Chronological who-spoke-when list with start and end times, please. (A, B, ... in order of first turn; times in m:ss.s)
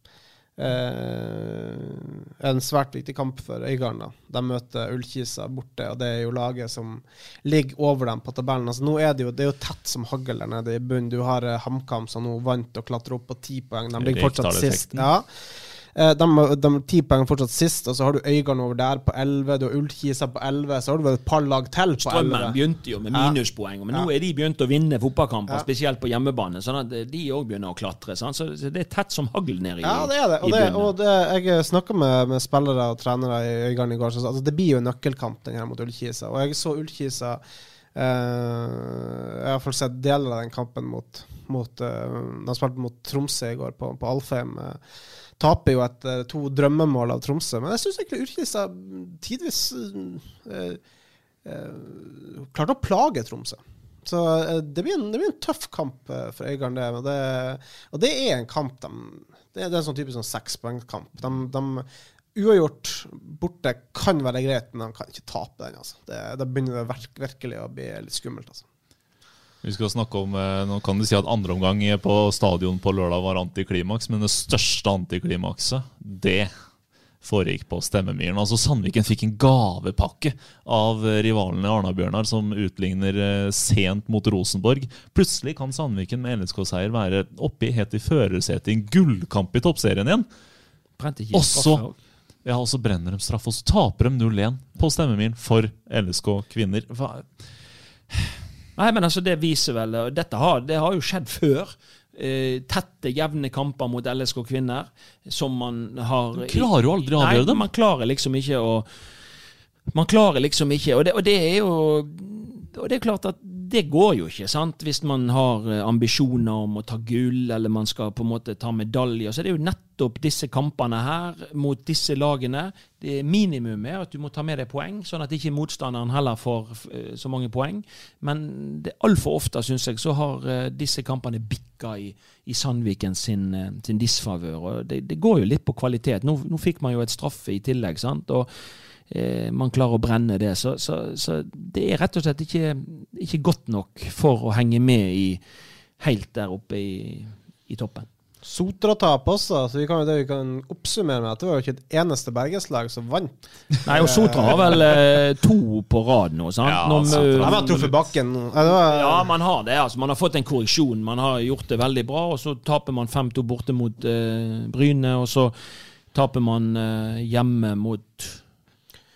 0:00.6-0:22.6 A
0:14.0-0:15.1 B
0:22.0-0:30.9 C
0:23.1-0:23.4 A
0:29.8-0:37.4 A
0:37.9-0:44.8 A
0:45.4-0:50.8 A
0:51.4-1:08.6 A
1:09.6-1:16.5 B
1:17.2-1:30.2 B
1:31.0-1:32.0 C
1:31.3-1:31.8 B
1:32.4-1:37.4 B
1:38.8-1:48.9 C
1:46.4-1:47.6 B
1:49.9-2:18.5 C
2:19.1-2:25.4 C
2:26.0-2:28.1 C
2:28.4-2:35.0 A
2:33.8-2:37.9 C
2:36.6-2:38.0 B
2:37.1-2:39.3 A
2:38.6-2:45.5 C
2:46.1-2:48.4 C